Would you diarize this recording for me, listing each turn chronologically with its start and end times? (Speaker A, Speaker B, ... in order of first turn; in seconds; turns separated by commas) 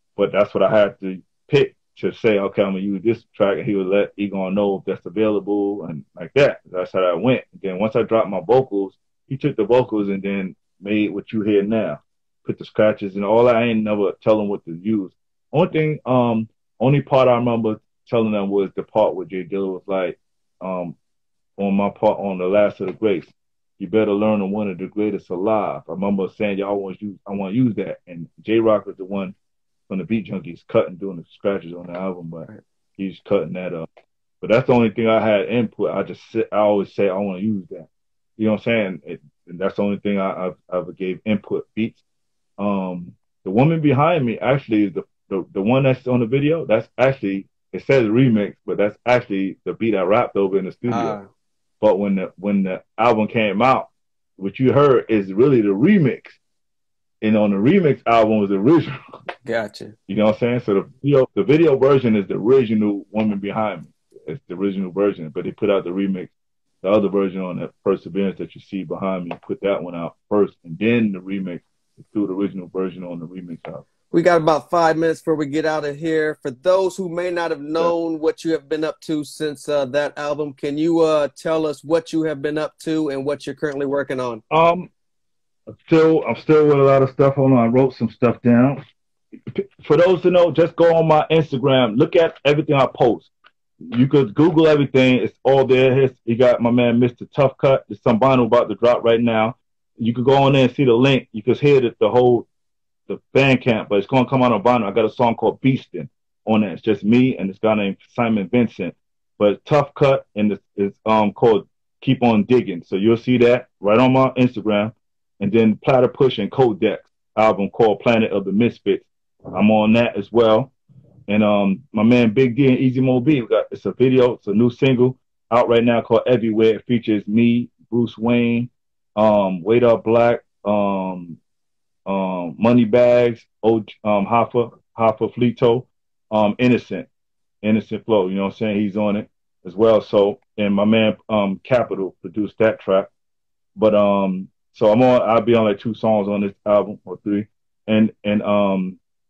Speaker A: 0.1-20.9, Speaker A: 21.6-29.3, Speaker A: 29.9-33.9, Speaker A: 34.4-42.0, Speaker A: 42.6-51.2, Speaker B: 50.9-51.3, Speaker A: 51.8-56.4, Speaker A: 57.2-59.0, Speaker B: 59.4-59.9, Speaker A: 60.1-66.3, Speaker A: 66.8-73.8, Speaker B: 74.1-84.4, Speaker A: 84.5-84.9, Speaker A: 85.7-88.8, Speaker A: 89.5-93.3, Speaker A: 93.9-102.5, Speaker A: 103.1-120.7, Speaker A: 121.3-131.4, Speaker A: 132.1-137.1, Speaker A: 137.6-143.1, Speaker A: 143.8-149.0